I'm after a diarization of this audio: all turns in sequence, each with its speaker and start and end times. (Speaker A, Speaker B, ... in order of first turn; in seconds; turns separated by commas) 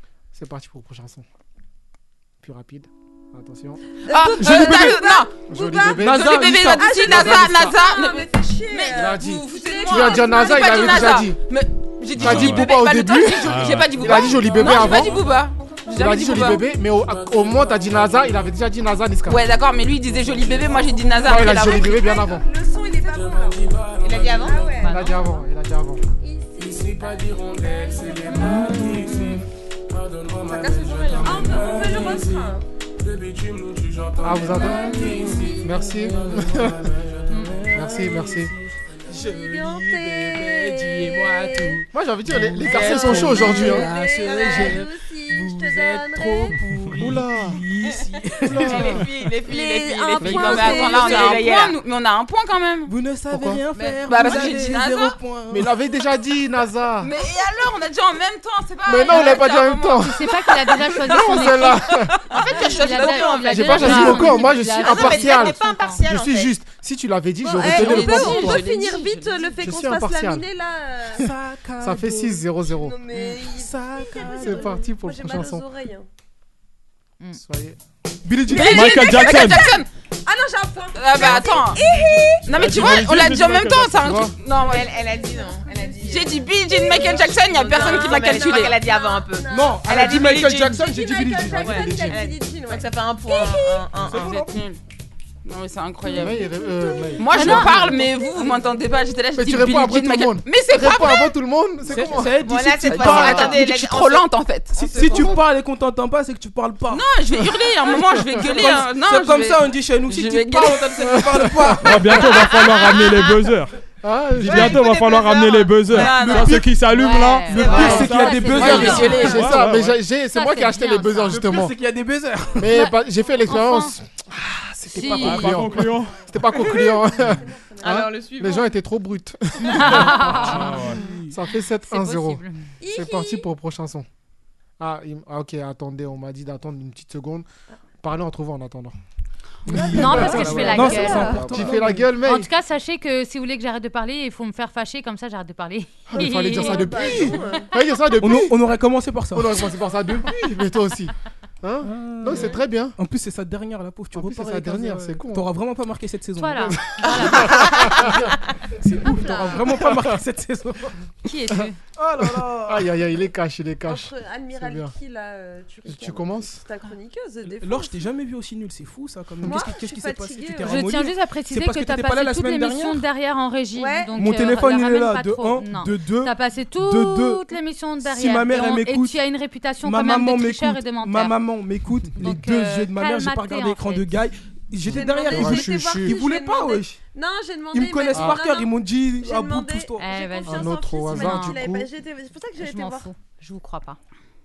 Speaker A: 0.3-1.3, Speaker A: 2.4-3.8, Speaker B: 4.0-11.1, Speaker C: 4.1-5.3, Speaker D: 4.4-5.0, Speaker A: 5.4-7.8, Speaker D: 6.0-6.7, Speaker C: 6.0-16.7, Speaker A: 8.8-11.4, Speaker E: 9.3-9.9, Speaker A: 12.1-15.2, Speaker F: 12.1-12.7, Speaker F: 13.4-13.9, Speaker A: 15.9-19.5, Speaker C: 19.3-22.1, Speaker A: 21.2-22.5, Speaker B: 21.3-23.7, Speaker E: 24.0-24.6, Speaker B: 24.4-25.0, Speaker G: 24.8-25.3, Speaker A: 24.8-26.0, Speaker B: 26.2-28.6, Speaker G: 28.3-29.4, Speaker B: 30.4-32.6, Speaker A: 34.2-37.0, Speaker B: 34.5-36.2, Speaker D: 34.8-49.1, Speaker G: 37.3-37.6, Speaker A: 37.7-38.5, Speaker B: 39.2-41.8, Speaker A: 41.9-43.9, Speaker B: 42.6-46.6, Speaker E: 42.8-43.6, Speaker E: 44.3-44.6, Speaker A: 47.0-47.6, Speaker A: 48.4-49.2, Speaker E: 48.6-51.7, Speaker B: 49.5-51.5, Speaker C: 49.5-52.9, Speaker A: 50.2-50.8, Speaker D: 50.4-50.8, Speaker D: 52.9-55.7, Speaker A: 53.3-53.6, Speaker E: 53.7-54.8, Speaker C: 54.0-55.2, Speaker A: 55.5-57.1, Speaker C: 57.0-60.2, Speaker A: 58.9-62.5, Speaker G: 59.1-59.4, Speaker G: 60.0-61.8, Speaker C: 61.0-61.7, Speaker E: 62.3-66.5, Speaker G: 62.3-66.1, Speaker C: 62.4-64.4, Speaker A: 63.4-68.6, Speaker B: 67.5-71.3, Speaker C: 67.5-69.6, Speaker A: 69.6-70.5, Speaker D: 71.1-72.4, Speaker A: 71.8-73.0, Speaker B: 72.6-76.1, Speaker D: 73.5-74.5, Speaker A: 74.2-75.6, Speaker A: 77.3-77.8, Speaker D: 78.2-79.2, Speaker C: 78.5-79.9, Speaker F: 78.5-79.7, Speaker B: 79.2-79.7, Speaker B: 80.3-82.5, Speaker C: 81.0-81.8, Speaker D: 82.3-83.0, Speaker C: 82.5-84.8, Speaker F: 82.6-84.2, Speaker A: 83.1-84.3, Speaker E: 84.4-90.9, Speaker B: 84.6-93.9, Speaker C: 86.0-88.8, Speaker D: 89.5-91.9, Speaker A: 91.5-92.3, Speaker E: 91.7-94.5, Speaker D: 93.4-94.7, Speaker C: 94.1-94.8, Speaker C: 95.4-96.5, Speaker A: 96.1-98.0, Speaker B: 96.9-98.9, Speaker C: 97.2-101.3, Speaker D: 97.3-97.7, Speaker G: 97.4-97.8, Speaker A: 99.3-102.4, Speaker D: 101.8-103.7, Speaker E: 102.4-104.2, Speaker C: 102.7-105.2, Speaker A: 103.0-103.5, Speaker D: 104.7-107.1, Speaker E: 104.8-105.4, Speaker C: 106.9-111.2, Speaker D: 108.1-112.7, Speaker E: 108.5-108.9, Speaker A: 111.0-112.2, Speaker F: 111.8-113.7, Speaker C: 112.2-113.0, Speaker A: 114.0-114.9, Speaker F: 114.3-120.0, Speaker E: 114.5-116.6, Speaker A: 115.9-116.3, Speaker G: 116.8-119.6, Speaker A: 117.6-121.8, Speaker D: 117.6-119.4, Speaker C: 118.8-119.2, Speaker G: 120.3-121.5, Speaker D: 121.3-122.8, Speaker A: 122.5-134.1, Speaker G: 123.5-123.9, Speaker G: 124.9-125.7, Speaker F: 125.2-126.2, Speaker B: 126.5-128.1, Speaker E: 126.6-127.0, Speaker E: 127.8-128.7, Speaker G: 129.6-130.8, Speaker D: 129.8-131.4, Speaker F: 130.4-131.0, Speaker G: 131.8-132.7, Speaker B: 132.8-133.5, Speaker A: 134.8-137.4, Speaker A: 138.0-139.0, Speaker D: 139.7-142.1, Speaker A: 139.7-142.5, Speaker G: 139.7-147.1, Speaker B: 139.7-141.5, Speaker A: 146.1-148.6, Speaker B: 146.6-147.8, Speaker D: 148.2-149.7, Speaker A: 149.3-153.0, Speaker D: 151.8-156.9, Speaker A: 154.1-155.5, Speaker G: 156.4-158.1, Speaker A: 156.7-158.3, Speaker D: 158.8-161.0, Speaker A: 158.9-160.2, Speaker G: 159.1-159.7, Speaker G: 161.2-161.8, Speaker A: 161.6-164.9, Speaker D: 162.0-162.9, Speaker B: 163.8-168.1, Speaker A: 165.8-166.6, Speaker D: 167.4-173.1, Speaker B: 169.4-170.9, Speaker G: 170.7-181.4, Speaker B: 173.7-174.3, Speaker D: 174.1-177.4, Speaker D: 178.0-179.2, Speaker D: 179.8-187.0, Speaker G: 182.2-184.1, Speaker B: 184.8-193.1, Speaker A: 184.9-186.1, Speaker D: 187.7-190.2, Speaker A: 188.1-188.4, Speaker G: 190.0-191.7, Speaker A: 190.4-191.9, Speaker G: 192.6-194.0